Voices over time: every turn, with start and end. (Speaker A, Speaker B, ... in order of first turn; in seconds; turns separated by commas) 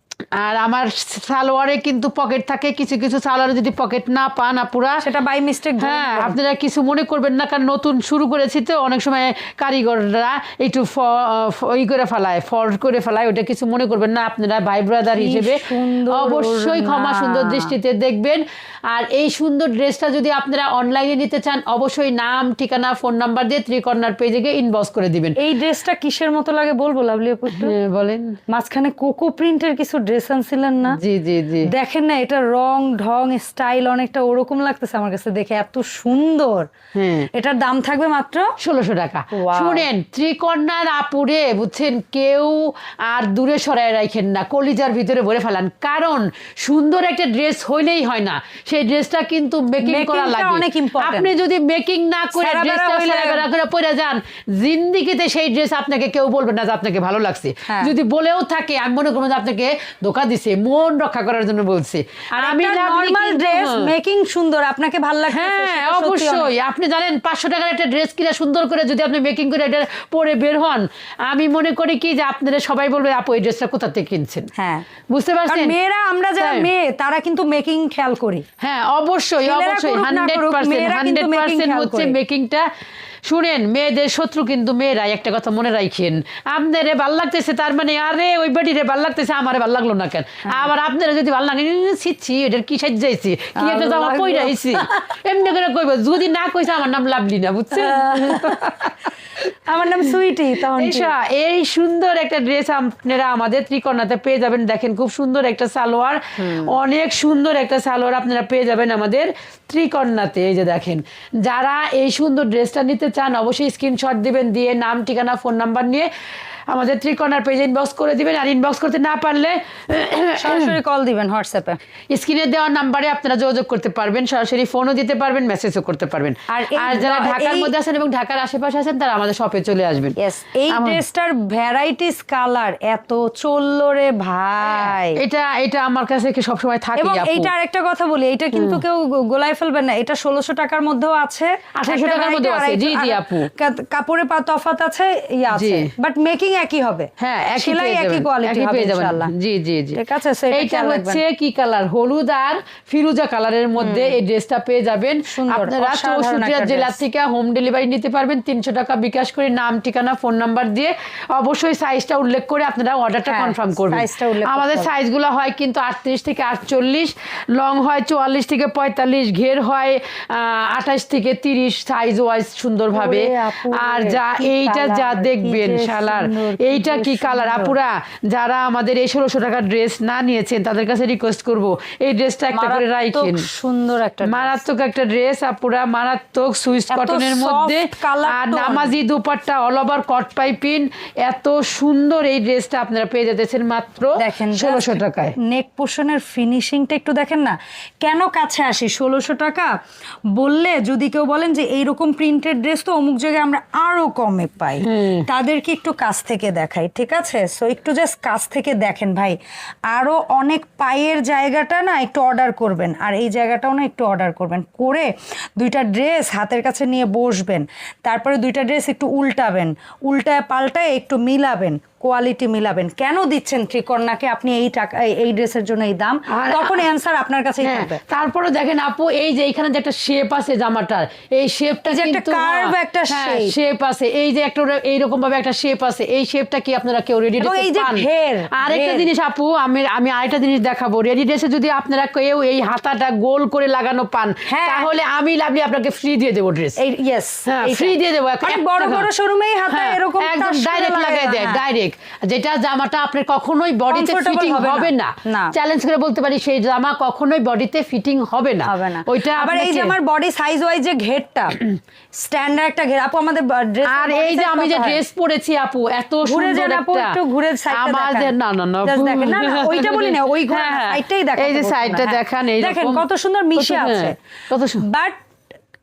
Speaker A: 0.4-5.0, Speaker B: 5.0-6.3, Speaker A: 5.8-25.3, Speaker B: 15.2-17.7, Speaker B: 25.4-27.7, Speaker A: 27.5-28.4, Speaker B: 28.5-31.0, Speaker A: 30.9-31.7, Speaker B: 31.7-36.7, Speaker A: 36.9-37.3, Speaker B: 37.3-38.5, Speaker A: 38.6-63.9, Speaker B: 39.3-39.9, Speaker B: 49.8-51.3, Speaker B: 52.3-53.4, Speaker B: 57.7-57.9, Speaker B: 62.4-66.5, Speaker A: 65.3-74.5, Speaker B: 74.6-74.8, Speaker A: 75.1-75.7, Speaker B: 75.5-78.4, Speaker A: 76.4-76.7, Speaker A: 78.6-82.7, Speaker B: 79.4-82.1, Speaker A: 83.2-99.1, Speaker B: 93.6-94.8, Speaker B: 97.8-98.6, Speaker B: 99.7-101.1, Speaker A: 100.7-116.1, Speaker B: 106.4-106.7, Speaker A: 116.7-120.7, Speaker B: 120.4-121.8, Speaker A: 122.1-130.1, Speaker B: 126.5-127.7, Speaker B: 130.2-135.2, Speaker A: 130.7-131.0, Speaker A: 134.6-137.5, Speaker B: 137.0-149.3, Speaker A: 138.5-138.8, Speaker A: 141.7-143.5, Speaker A: 145.5-145.9, Speaker A: 147.2-150.0, Speaker B: 149.9-151.2, Speaker A: 150.5-183.4, Speaker B: 153.8-154.2, Speaker B: 155.3-157.0, Speaker B: 163.2-164.9, Speaker B: 172.9-177.8, Speaker B: 182.5-184.6, Speaker A: 184.2-195.3, Speaker B: 186.9-188.9, Speaker B: 194.2-199.7, Speaker B: 200.3-209.4, Speaker A: 204.8-205.2, Speaker B: 209.9-228.0, Speaker A: 226.3-226.8, Speaker A: 227.6-246.8, Speaker B: 231.9-233.5, Speaker B: 237.4-239.1, Speaker B: 244.5-244.9, Speaker B: 246.8-251.6, Speaker A: 247.4-249.1, Speaker A: 249.7-259.9, Speaker B: 253.9-255.5, Speaker B: 258.6-261.6, Speaker B: 262.2-265.0, Speaker A: 263.9-267.1, Speaker B: 266.2-268.3, Speaker A: 267.7-273.0, Speaker B: 268.8-274.1, Speaker A: 273.6-274.8, Speaker B: 274.8-275.2